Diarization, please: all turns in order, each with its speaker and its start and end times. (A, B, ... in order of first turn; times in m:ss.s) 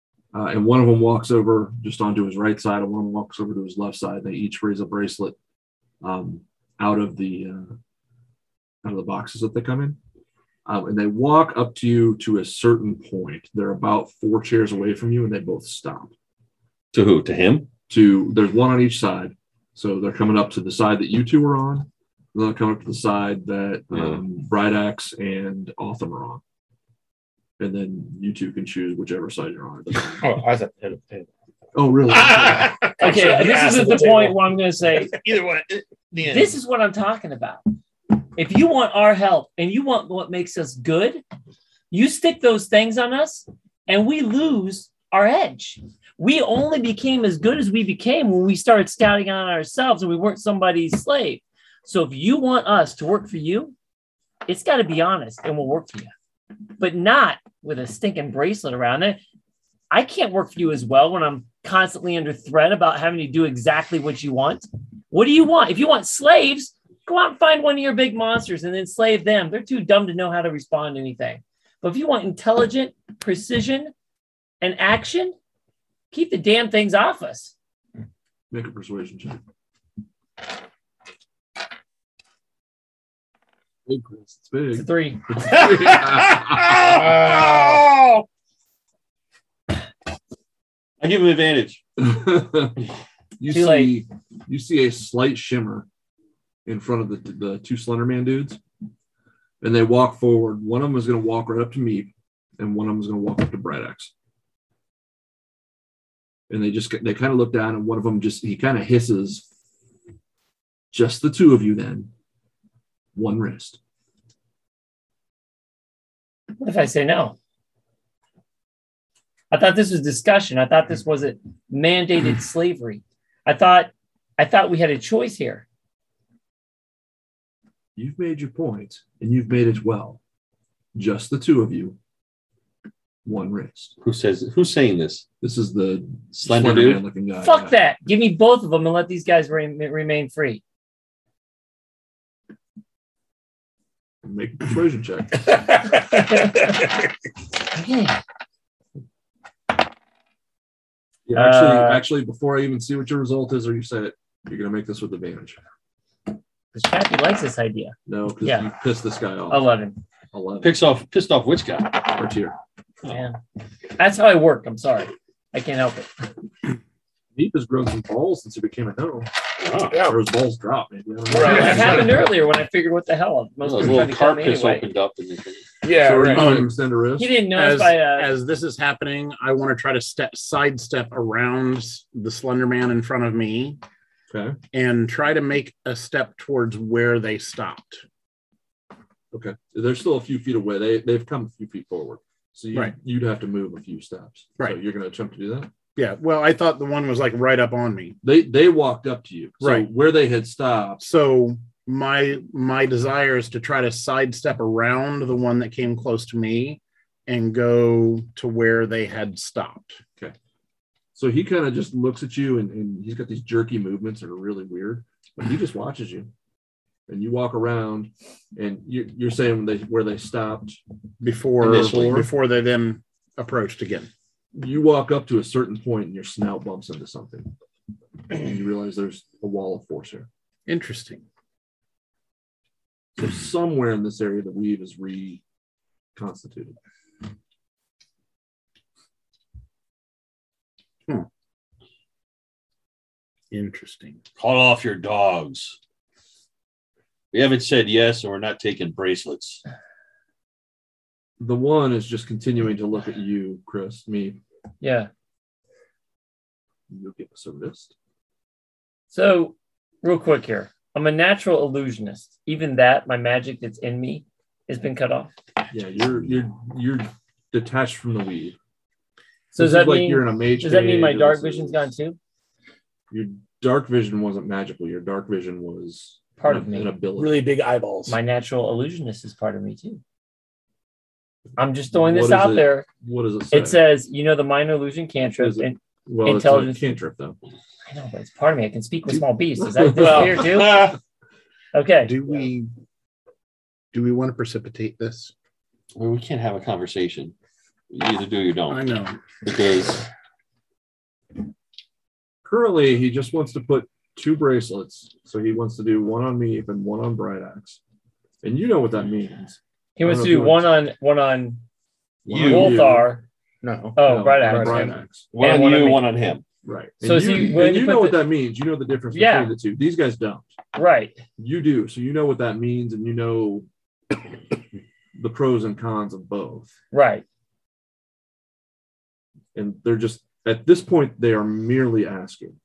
0:00.3-0:05.4 A
0:06.0-0:07.8 A
0:08.8-0:10.0 A
0:10.6-0:16.1 A
0:16.9-0:17.7 B
0:17.9-0:26.4 A
0:23.9-0:24.2 B
0:27.6-0:30.3 A
0:30.1-0:31.3 C
0:31.7-0:32.8 A
0:31.9-0:34.3 C
0:33.0-0:35.1 D
0:33.0-0:34.3 E
0:34.9-0:36.6 C
0:36.3-0:37.6 D
0:38.3-0:41.2 D
0:41.9-0:53.7 D
0:54.4-0:56.1 D
0:56.8-0:59.2 D
0:59.9-1:13.9 D
1:14.6-1:15.3 D
1:16.1-1:17.5 D
1:18.5-1:19.4 A
1:23.8-1:27.1 A
1:24.7-1:25.7 D
1:26.8-1:27.8 C
1:27.4-1:27.7 E
1:31.0-1:31.8 B
1:32.0-1:32.9 A
1:33.4-1:35.9 A
1:33.5-1:34.0 D
1:36.6-1:38.6 A
1:39.6-1:44.1 A
1:46.5-1:49.4 A
1:50.9-1:52.1 A
1:53.1-1:53.8 A
1:56.6-1:57.4 D
1:59.5-2:05.6 D
2:08.0-2:10.2 A
2:10.9-2:12.0 A
2:13.2-2:13.9 A
2:14.0-2:15.3 B
2:15.4-2:17.7 A
2:16.4-2:17.0 B
2:17.4-2:20.6 D
2:24.2-2:25.8 A
2:27.7-2:28.2 D
2:31.2-2:35.6 A
2:31.3-2:32.0 D
2:36.7-2:38.7 D
2:38.0-2:39.7 A
2:39.5-2:40.0 D
2:40.3-2:40.8 A
2:40.6-2:42.3 B
2:42.1-2:42.5 A
2:43.1-2:43.4 D
2:44.0-2:46.1 D
2:47.3-2:49.3 A
2:49.6-2:49.9 B
2:49.9-2:50.2 E
2:49.9-2:52.3 A
2:51.3-2:52.1 E
2:51.4-2:54.8 D
2:53.6-2:55.6 B
2:55.8-2:56.5 E
2:55.9-2:57.4 A
2:56.3-2:56.8 F
2:57.2-2:58.3 D
2:57.5-3:03.8 F
3:04.3-3:04.6 A
3:04.7-3:08.0 F
3:09.3-3:15.7 A
3:16.0-3:18.2 F
3:18.2-3:21.0 A
3:19.6-3:19.9 F
3:21.0-3:30.0 F
3:31.1-3:36.3 A
3:37.1-3:40.8 A
3:41.2-3:44.1 F
3:41.6-3:42.3 B
3:41.7-3:42.2 A
3:44.5-3:47.5 A
3:48.3-3:50.3 A
3:50.7-3:51.2 F
3:53.2-3:55.4 A
3:56.1-3:56.8 A
4:03.5-4:04.2 F
4:04.4-4:05.8 B
4:07.3-4:09.6 B
4:11.4-4:14.4 A
4:14.8-4:15.1 D
4:16.9-4:17.9 A
4:19.1-4:25.3 D
4:25.7-4:28.6 A
4:29.5-4:31.8 A
4:29.5-4:32.2 D
4:33.1-4:37.5 A
4:36.4-4:37.0 D
4:37.2-4:38.2 E
4:38.1-4:40.0 D
4:41.6-4:42.8 D
4:41.9-4:43.8 A
4:43.5-4:47.0 D
4:45.4-4:47.4 A
4:47.9-4:50.9 D
4:49.1-4:50.9 A
4:51.7-4:52.5 D
4:52.0-4:52.7 F
4:53.9-4:55.3 F
4:55.9-4:57.3 B
4:57.9-5:00.1 B
4:58.7-4:59.2 F
5:02.4-5:07.8 A
5:08.4-5:10.7 A
5:10.0-5:11.6 D
5:12.3-5:12.7 C
5:12.3-5:12.7 B
5:12.3-5:13.1 A
5:12.4-5:13.2 D
5:13.6-5:15.0 C
5:14.0-5:16.1 D
5:14.0-5:15.2 A
5:15.3-5:16.4 B
5:16.6-5:20.5 A
5:17.0-5:18.2 D
5:19.1-5:19.5 D
5:20.7-5:21.2 D
5:21.4-5:23.7 A
5:25.2-5:26.7 A
5:26.9-5:27.2 D
5:29.5-5:32.6 A